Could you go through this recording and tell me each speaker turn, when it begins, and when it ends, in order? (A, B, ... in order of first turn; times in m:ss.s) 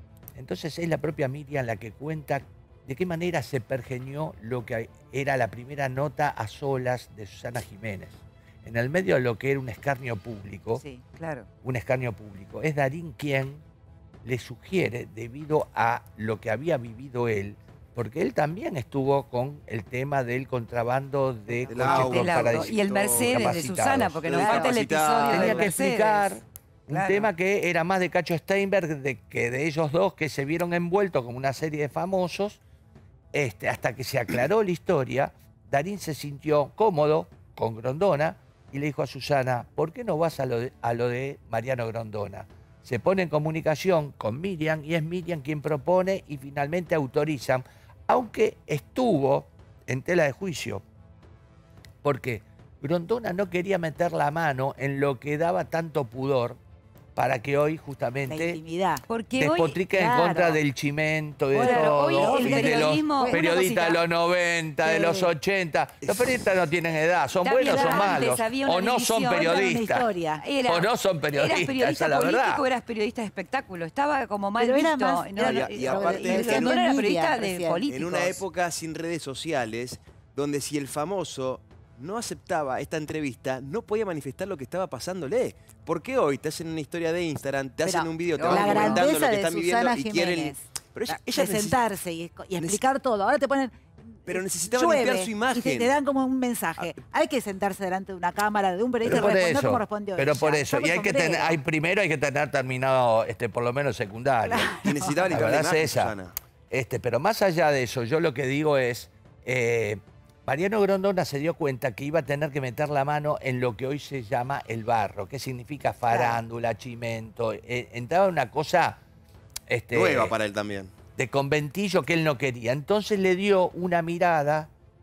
0:00.3-0:10.8 A
0:10.8-0:11.0 B
0:11.2-0:11.5 C
0:11.6-0:13.6 A
0:14.2-0:24.7 A
0:21.7-0:23.4 D
0:21.7-0:26.4 C
0:24.2-0:25.7 D
0:25.2-0:32.6 A
0:26.9-0:27.3 C
0:33.3-0:50.8 A
0:52.0-0:56.6 A
0:57.2-0:58.6 A
0:58.3-0:59.0 B
0:59.1-0:59.8 C
0:59.4-1:10.1 A
0:59.9-1:00.6 B
1:01.5-1:03.8 B
1:01.6-1:04.0 C
1:04.8-1:05.3 B
1:06.0-1:06.4 D
1:07.4-1:09.8 C
1:07.6-1:08.3 B
1:09.3-1:10.5 B
1:10.4-1:18.4 C
1:10.6-1:12.6 A
1:14.6-1:17.8 B
1:15.4-1:16.7 D
1:17.9-1:31.8 D
1:27.8-1:41.6 B
1:28.4-1:29.1 C
1:32.6-1:32.8 D
1:34.3-1:36.0 D
1:39.0-1:44.7 A
1:44.4-1:45.3 B
1:44.8-1:46.3 D
1:45.3-1:46.1 A
1:46.7-1:59.0 A
1:59.7-2:00.3 A
1:59.9-2:00.9 D
2:01.2-2:04.7 A